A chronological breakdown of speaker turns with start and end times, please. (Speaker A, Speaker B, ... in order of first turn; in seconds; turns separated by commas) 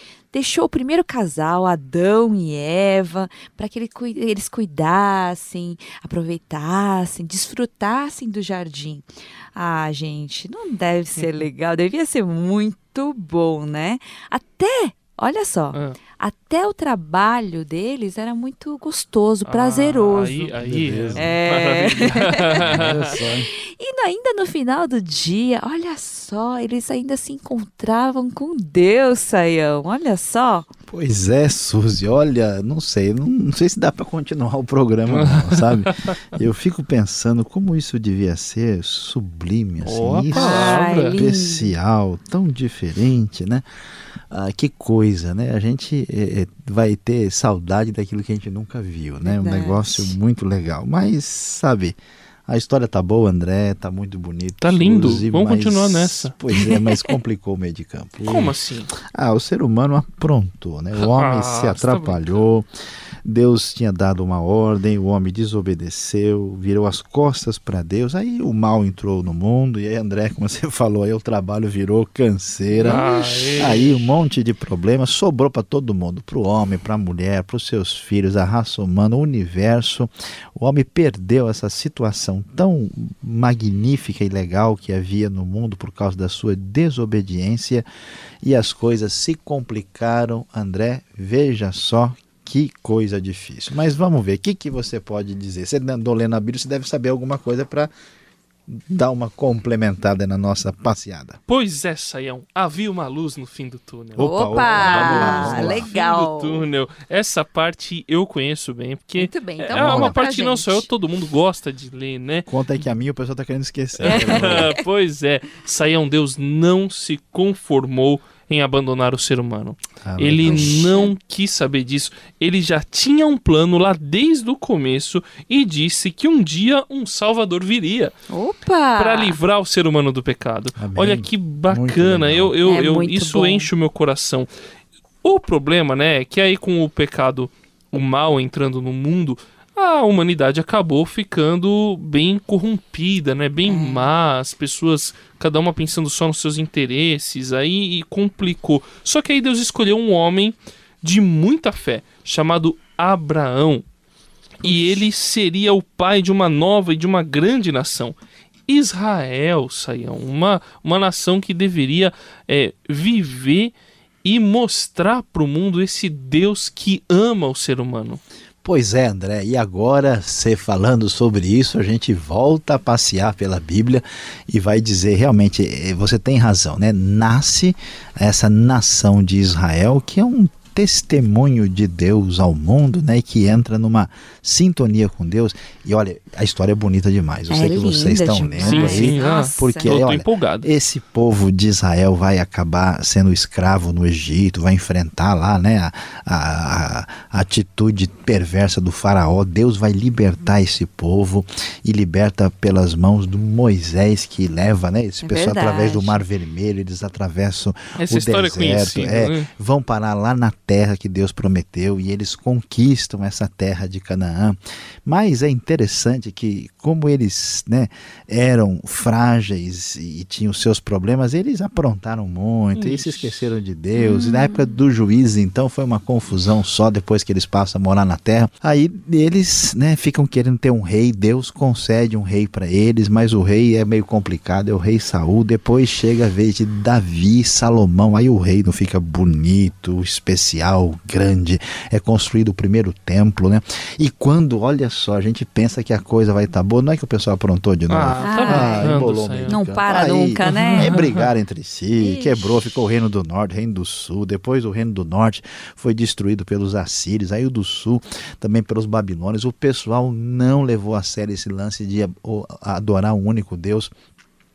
Speaker A: 0.3-20.6, Speaker B: 15.7-16.0, Speaker B: 19.5-23.1, Speaker C: 20.6-21.3, Speaker A: 21.1-30.7, Speaker C: 22.6-23.5, Speaker C: 30.9-43.7, Speaker B: 35.0-36.1, Speaker B: 39.8-41.2, Speaker A: 40.3-41.7, Speaker C: 44.3-58.5, Speaker A: 49.2-50.2, Speaker B: 54.6-56.3, Speaker A: 56.6-57.1, Speaker B: 58.2-58.9, Speaker C: 59.1-62.7, Speaker B: 61.0-62.4, Speaker C: 63.2-87.9, Speaker A: 72.8-73.4, Speaker B: 72.8-74.1, Speaker C: 88.4-97.9, Speaker C: 98.7-101.4, Speaker B: 101.5-112.5, Speaker C: 104.2-105.9, Speaker A: 104.2-106.7, Speaker A: 109.2-110.9, Speaker C: 109.7-110.2, Speaker C: 112.5-114.7, Speaker B: 114.0-128.1, Speaker A: 114.1-114.7, Speaker C: 120.0-120.9, Speaker A: 120.4-121.1, Speaker A: 128.3-129.4, Speaker B: 129.0-134.5, Speaker C: 130.8-132.6, Speaker A: 132.6-133.7, Speaker B: 135.2-153.8, Speaker A: 143.6-144.1, Speaker B: 154.6-168.2, Speaker A: 154.6-155.0, Speaker C: 168.6-263.9, Speaker A: 187.5-190.0, Speaker B: 188.6-190.7, Speaker A: 205.2-206.3, Speaker B: 208.0-209.5, Speaker B: 222.7-223.5, Speaker A: 223.9-224.8, Speaker B: 247.9-249.6, Speaker A: 248.2-249.0, Speaker A: 249.5-250.9, Speaker B: 250.4-251.3, Speaker A: 252.0-252.6